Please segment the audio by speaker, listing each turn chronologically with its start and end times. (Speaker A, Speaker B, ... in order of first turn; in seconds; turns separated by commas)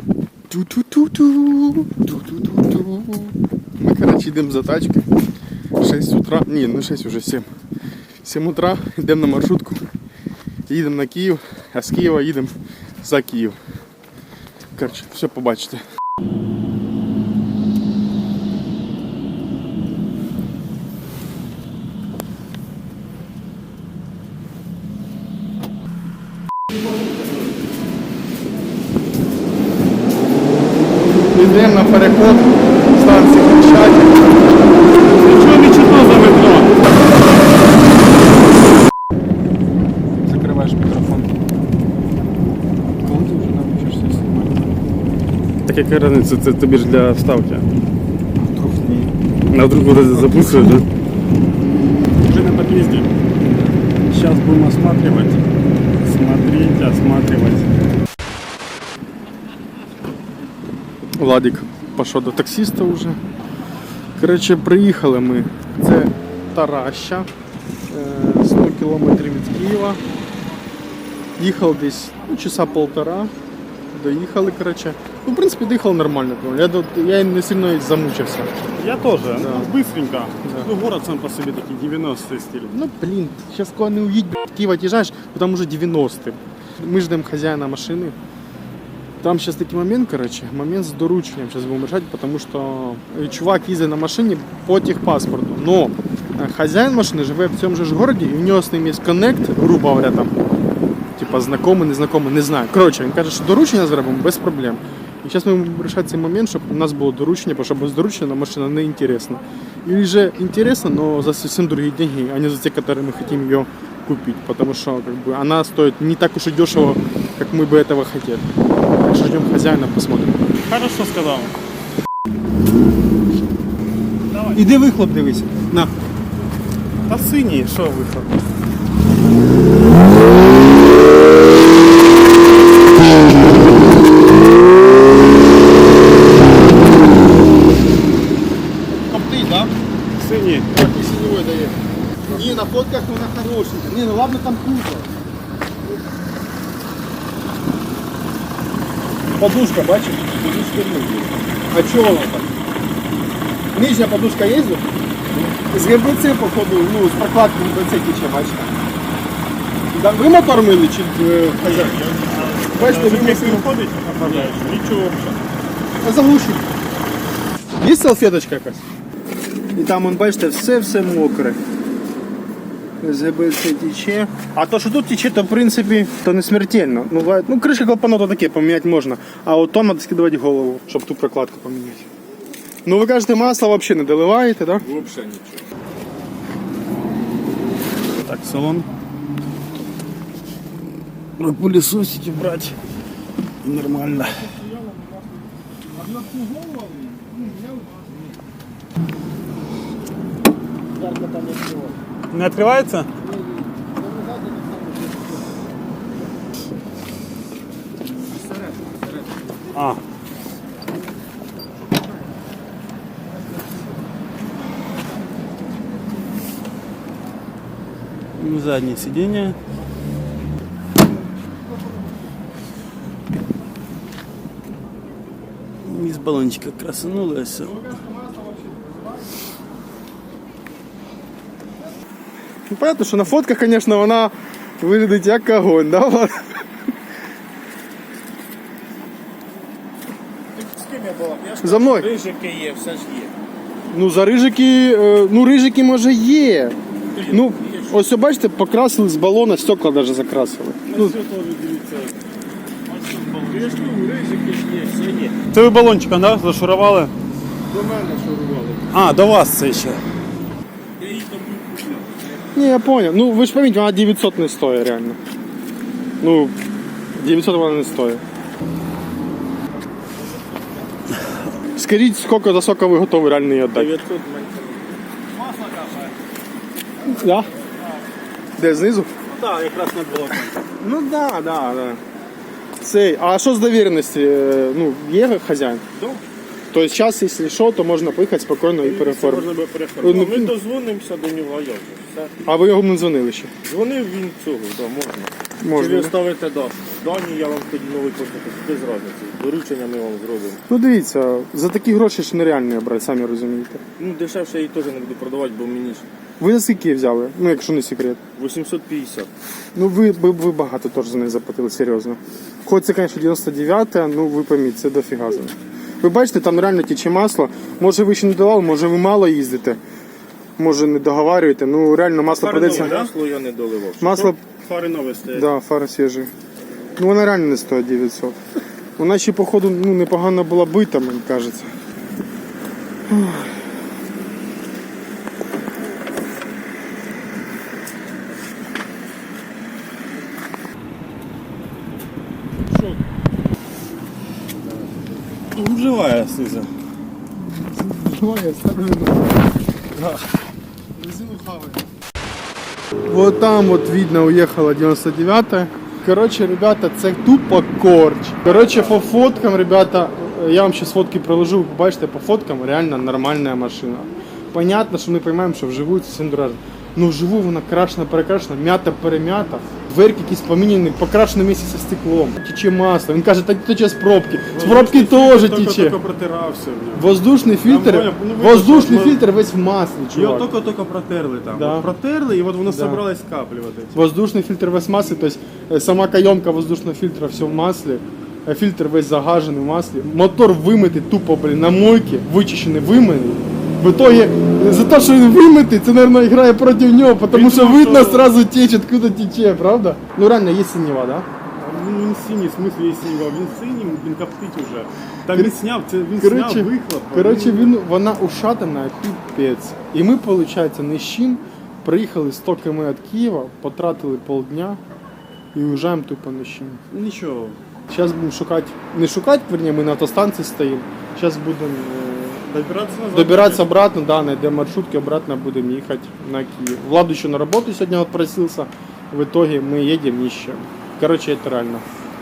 Speaker A: 0.5-5.1, Speaker A: 5.8-7.5, Speaker A: 8.2-9.8, Speaker A: 10.7-13.6, Speaker A: 14.8-15.8, Speaker A: 31.3-34.2, Speaker B: 35.2-36.8, Speaker A: 40.2-41.4, Speaker A: 43.0-44.7, Speaker B: 45.6-47.7, Speaker A: 48.5-49.1, Speaker B: 49.5-50.8, Speaker A: 50.1-50.8, Speaker B: 52.3-53.1, Speaker A: 53.4-53.7, Speaker B: 54.1-55.4, Speaker B: 56.0-57.7, Speaker A: 61.2-63.2, Speaker A: 64.2-67.3, Speaker A: 67.9-70.0, Speaker A: 71.4-73.3, Speaker A: 73.9-78.5, Speaker B: 78.8-82.7, Speaker A: 79.4-79.7, Speaker A: 82.7-88.1, Speaker A: 89.2-100.3, Speaker A: 101.1-118.4, Speaker A: 119.0-120.4, Speaker B: 120.7-121.5, Speaker B: 124.3-124.6, Speaker A: 124.5-125.9, Speaker B: 127.1-128.3, Speaker A: 139.1-139.7, Speaker B: 140.2-140.7, Speaker A: 140.7-145.1, Speaker A: 149.4-150.4, Speaker A: 151.7-152.5, Speaker A: 153.7-154.9, Speaker A: 155.7-158.7, Speaker A: 159.9-162.2, Speaker B: 162.1-165.4, Speaker A: 162.7-163.7, Speaker A: 164.2-164.8, Speaker A: 166.0-166.7, Speaker A: 167.8-168.8, Speaker A: 169.7-171.6, Speaker A: 173.0-182.1, Speaker A: 182.8-184.8, Speaker C: 184.8-185.6, Speaker B: 188.2-188.8, Speaker B: 191.4-192.7, Speaker B: 193.6-194.4, Speaker C: 201.0-201.9, Speaker B: 202.3-203.1, Speaker B: 209.7-210.0, Speaker B: 218.4-219.6, Speaker B: 225.8-227.9, Speaker A: 232.7-236.6, Speaker C: 240.5-243.3, Speaker A: 241.6-242.1, Speaker A: 243.9-246.8, Speaker C: 247.1-248.0, Speaker A: 247.3-251.1, Speaker B: 250.8-252.1, Speaker B: 252.9-253.9, Speaker C: 253.5-255.3, Speaker B: 255.5-257.1, Speaker C: 257.7-258.9, Speaker B: 258.9-260.0, Speaker C: 261.0-262.3, Speaker A: 262.5-265.2, Speaker A: 266.2-266.6, Speaker A: 267.1-268.2, Speaker A: 271.8-274.0, Speaker C: 273.7-276.0, Speaker A: 277.1-277.5, Speaker A: 278.6-279.1, Speaker B: 279.4-280.5, Speaker A: 280.8-282.0, Speaker A: 282.8-285.8, Speaker C: 286.0-286.2, Speaker A: 286.7-289.5, Speaker B: 288.8-290.3, Speaker C: 290.0-292.3, Speaker A: 290.0-290.5, Speaker A: 292.4-293.5, Speaker C: 293.6-300.6, Speaker A: 295.6-296.1, Speaker A: 300.7-303.8, Speaker C: 304.0-306.1, Speaker A: 306.4-308.2, Speaker C: 308.4-309.3, Speaker A: 309.7-319.8, Speaker A: 320.6-323.0, Speaker C: 322.4-324.3, Speaker B: 322.4-323.1, Speaker A: 324.0-324.4, Speaker B: 324.2-325.5, Speaker A: 325.3-326.3, Speaker A: 327.0-328.4, Speaker A: 329.0-331.7, Speaker A: 333.1-333.6, Speaker B: 345.5-346.7, Speaker A: 347.3-349.4, Speaker A: 351.0-351.8, Speaker A: 353.0-376.0, Speaker B: 374.5-377.1, Speaker A: 376.9-380.5, Speaker B: 377.6-379.2, Speaker B: 380.1-384.0, Speaker A: 381.5-381.9, Speaker A: 382.6-383.0, Speaker A: 383.9-401.3, Speaker B: 397.3-398.3, Speaker B: 401.6-407.8, Speaker A: 405.3-405.6, Speaker A: 406.2-414.8, Speaker A: 415.5-416.8, Speaker B: 416.9-417.6, Speaker A: 417.9-422.5, Speaker B: 422.5-423.7, Speaker A: 423.1-431.8